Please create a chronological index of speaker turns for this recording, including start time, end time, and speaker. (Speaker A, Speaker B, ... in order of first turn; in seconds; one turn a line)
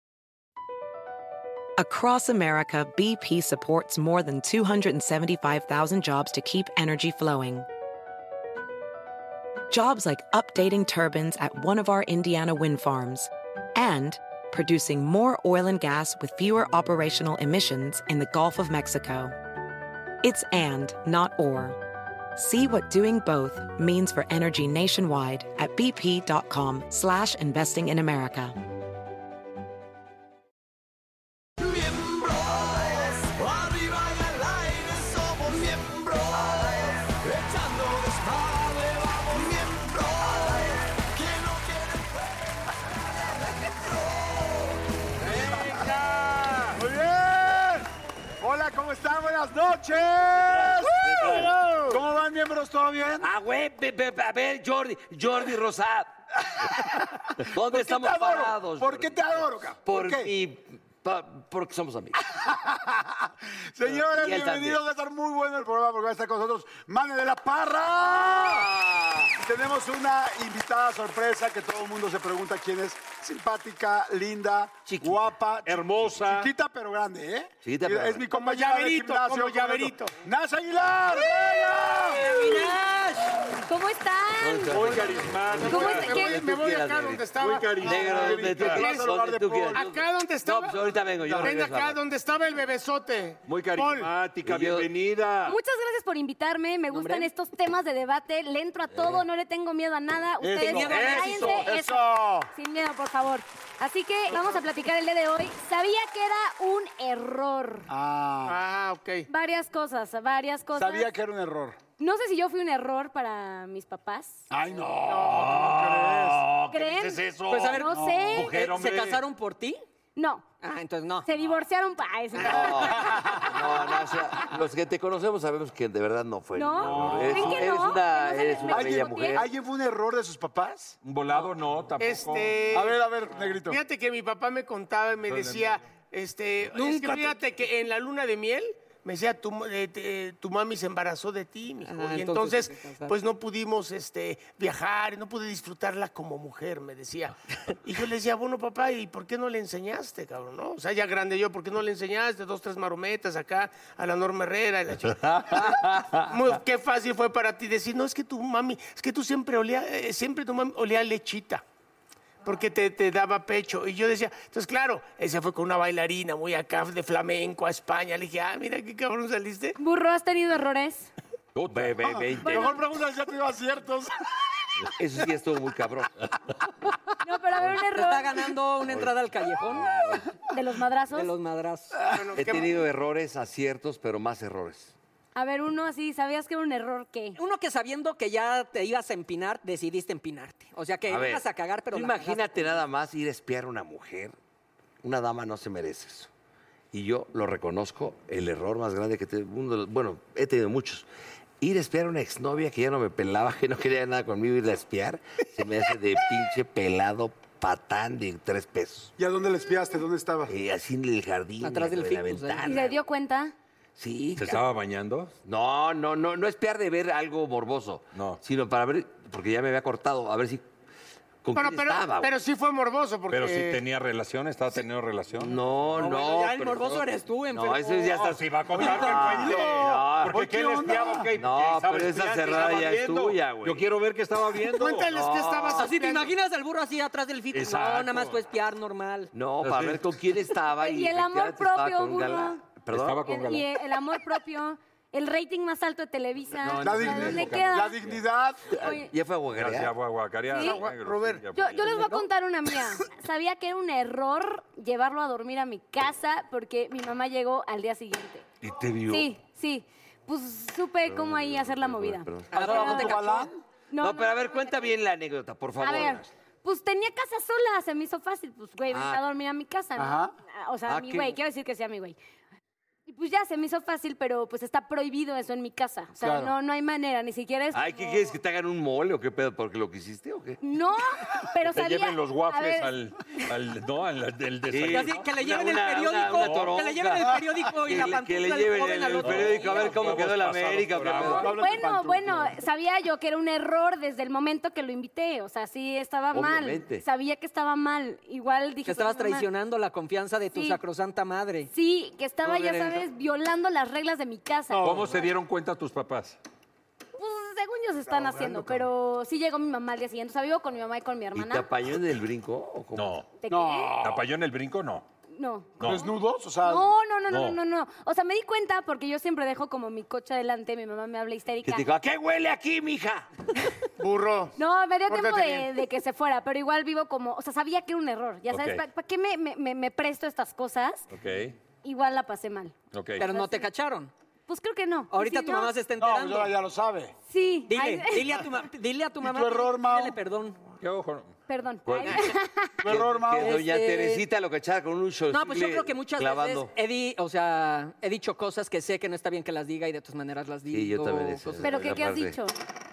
Speaker A: 1.8-7.7
Speaker A: 9.7-19.4
Speaker A: 20.2-21.8
Speaker A: 22.4-28.6
Speaker B: 31.6-42.6
Speaker B: 43.2-44.8
Speaker C: 45.2-46.8
Speaker D: 46.7-47.9
Speaker D: 48.4-53.3
Speaker E: 50.4-52.0
Speaker E: 53.2-56.1
Speaker D: 56.7-60.3
Speaker E: 57.4-59.2
Speaker E: 59.8-62.2
Speaker D: 62.3-68.7
Speaker E: 63.9-64.8
Speaker E: 68.1-69.3
Speaker D: 69.4-82.5
Speaker E: 74.9-75.2
Speaker C: 75.7-76.5
Speaker E: 77.7-78.3
Speaker F: 78.3-80.2
Speaker G: 81.4-83.4
Speaker H: 82.2-82.8
Speaker H: 83.7-86.4
Speaker E: 84.4-92.0
Speaker C: 84.7-86.2
Speaker F: 85.6-87.9
Speaker C: 87.4-88.8
Speaker D: 87.8-89.9
Speaker F: 88.7-89.1
Speaker F: 89.7-90.9
Speaker D: 91.2-91.6
Speaker F: 91.4-94.1
Speaker C: 93.5-95.6
Speaker E: 94.4-94.9
Speaker H: 95.5-107.9
Speaker G: 96.9-97.3
Speaker D: 100.4-102.5
Speaker G: 100.6-101.7
Speaker C: 100.9-101.7
Speaker D: 107.9-108.6
Speaker F: 108.5-109.3
Speaker H: 109.3-111.1
Speaker D: 110.8-111.8
Speaker H: 112.0-114.5
Speaker D: 114.5-116.5
Speaker F: 115.1-115.5
Speaker C: 115.3-119.2
Speaker H: 116.7-118.3
Speaker G: 117.5-119.8
Speaker D: 117.9-118.5
Speaker H: 120.2-120.5
Speaker G: 120.6-121.3
Speaker H: 121.2-123.5
Speaker E: 122.4-129.5
Speaker D: 122.8-123.5
Speaker H: 126.5-129.4
Speaker C: 126.8-128.0
Speaker D: 128.7-131.0
Speaker C: 131.0-132.6
Speaker F: 132.0-133.0
Speaker D: 132.7-133.8
Speaker F: 133.7-161.6
Speaker C: 135.3-135.8
Speaker G: 136.7-137.4
Speaker G: 141.9-143.2
Speaker E: 155.4-156.1
Speaker F: 162.4-169.8
Speaker H: 169.8-171.1
Speaker C: 171.6-172.2
Speaker E: 171.7-172.8
Speaker D: 172.1-174.1
Speaker H: 172.5-172.8
Speaker E: 175.0-176.1
Speaker H: 177.2-178.3
Speaker G: 177.7-179.9
Speaker C: 178.9-180.2
Speaker H: 180.5-181.3
Speaker G: 181.1-182.1
Speaker F: 182.1-182.8
Speaker E: 182.3-184.9
Speaker H: 185.3-187.4
Speaker G: 187.4-192.8
Speaker E: 191.1-194.3
Speaker E: 195.0-196.3
Speaker E: 196.9-201.1
Speaker E: 201.6-209.1
Speaker D: 209.2-210.5
Speaker E: 210.5-213.0
Speaker G: 211.6-212.8
Speaker H: 212.6-213.5
Speaker E: 214.0-214.6
Speaker C: 214.4-215.3
Speaker E: 215.4-220.7
Speaker C: 218.2-218.4
Speaker E: 221.4-222.3
Speaker F: 221.5-223.8
Speaker C: 223.3-225.6
Speaker E: 225.4-230.4
Speaker G: 225.9-229.3
Speaker C: 228.1-235.1
Speaker D: 228.8-231.3
Speaker E: 231.4-233.9
Speaker F: 234.6-236.3
Speaker E: 235.1-235.9
Speaker G: 235.7-239.3
Speaker C: 237.5-238.4
Speaker E: 239.3-243.2
Speaker C: 239.6-240.1
Speaker H: 240.8-242.6
Speaker C: 242.9-243.7
Speaker H: 243.3-248.0
Speaker E: 246.6-247.7
Speaker D: 246.8-248.8
Speaker E: 248.7-249.9
Speaker H: 248.8-249.1
Speaker C: 249.5-251.9
Speaker H: 250.5-250.8
Speaker F: 250.6-251.4
Speaker H: 251.5-258.5
Speaker G: 251.8-252.2
Speaker E: 258.6-259.3
Speaker H: 259.1-263.3
Speaker E: 261.1-262.8
Speaker G: 262.5-263.5
Speaker D: 262.5-263.6
Speaker H: 263.9-264.9
Speaker E: 264.0-266.3
Speaker H: 265.8-272.2
Speaker E: 268.9-269.2
Speaker D: 270.0-270.3
Speaker E: 270.9-271.4
Speaker H: 273.1-278.2
Speaker D: 276.2-276.5
Speaker E: 277.7-280.6
Speaker H: 280.6-282.9
Speaker C: 281.6-285.3
Speaker E: 284.7-291.5
Speaker G: 284.9-290.3
Speaker C: 286.4-286.7
Speaker C: 289.2-291.6
Speaker D: 291.2-292.5
Speaker H: 291.5-299.5
Speaker E: 296.3-297.1
Speaker G: 298.9-301.7
Speaker H: 301.7-304.9
Speaker G: 302.4-303.0
Speaker D: 304.7-305.3
Speaker C: 304.8-306.4
Speaker H: 307.2-311.7
Speaker D: 308.1-308.9
Speaker E: 311.4-313.2
Speaker C: 312.9-313.3
Speaker H: 313.4-313.9
Speaker D: 313.5-314.2
Speaker C: 314.0-315.1
Speaker H: 315.3-315.9
Speaker C: 315.8-316.1
Speaker D: 315.8-316.9
Speaker H: 316.6-321.9
Speaker C: 317.3-317.6
Speaker E: 321.6-323.3
Speaker F: 324.0-324.6
Speaker H: 324.6-331.1
Speaker F: 325.1-325.7
Speaker C: 328.5-328.8
Speaker C: 331.1-331.6
Speaker H: 331.8-333.7
Speaker C: 332.9-333.2
Speaker G: 333.2-334.1
Speaker H: 334.5-335.7
Speaker G: 335.1-336.5
Speaker D: 336.0-337.1
Speaker H: 337.3-338.2
Speaker G: 337.7-340.6
Speaker D: 339.2-340.2
Speaker C: 340.8-341.3
Speaker H: 341.5-342.8
Speaker E: 341.9-342.3
Speaker D: 342.8-343.6
Speaker E: 342.8-346.7
Speaker G: 343.4-344.3
Speaker G: 345.3-352.0
Speaker E: 350.7-352.4
Speaker H: 351.6-352.6